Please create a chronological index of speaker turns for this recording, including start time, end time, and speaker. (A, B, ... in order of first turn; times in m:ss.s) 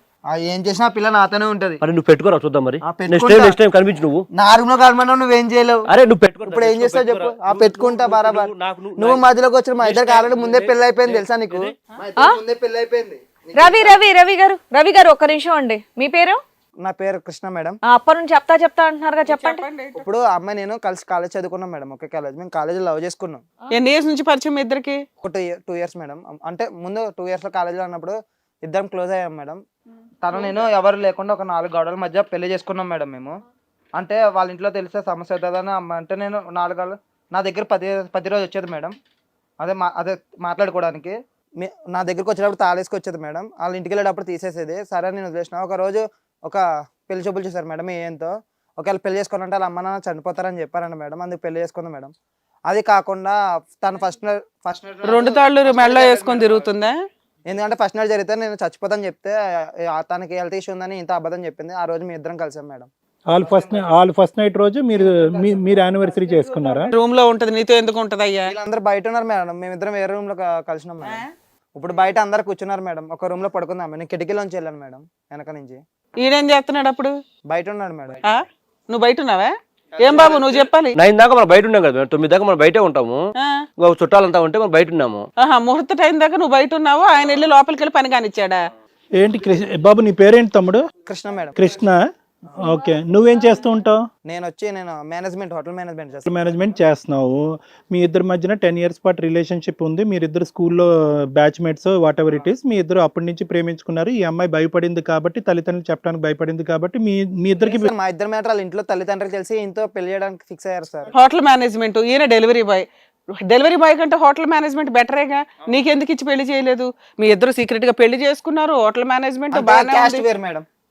0:00.3-0:01.8 A
0:01.8-0:04.2 B
0:02.8-0:03.6 A
0:04.3-0:05.9 A
0:05.9-0:09.2 B
0:06.5-0:14.0 A
0:09.8-0:11.7 B
0:13.5-0:16.4 C
0:16.8-0:17.8 A
0:17.9-0:19.6 C
0:19.2-0:20.0 D
0:19.9-0:23.4 A
0:23.7-0:25.0 D
0:25.2-0:29.6 A
0:30.2-0:33.3 A
0:34.0-0:38.9 A
0:39.6-0:52.1 A
0:52.6-0:56.7 A
0:55.0-0:57.0 D
0:57.4-1:02.9 A
1:03.3-1:06.9 E
1:03.4-1:03.8 A
1:05.0-1:05.5 A
1:06.9-1:08.5 D
1:08.5-1:11.2 A
1:11.8-1:15.8 A
1:16.2-1:17.1 D
1:17.5-1:18.2 A
1:18.2-1:21.0 D
1:20.1-1:20.6 A
1:21.0-1:23.2 B
1:23.8-1:25.2 B
1:25.4-1:28.6 D
1:29.2-1:30.8 E
1:31.1-1:31.6 A
1:31.6-1:32.0 E
1:32.6-1:34.0 E
1:34.2-1:36.7 A
1:36.3-1:47.9 E
1:47.6-1:51.1 A
1:51.1-1:52.9 D
1:53.4-2:00.2 D
1:59.5-2:00.6 A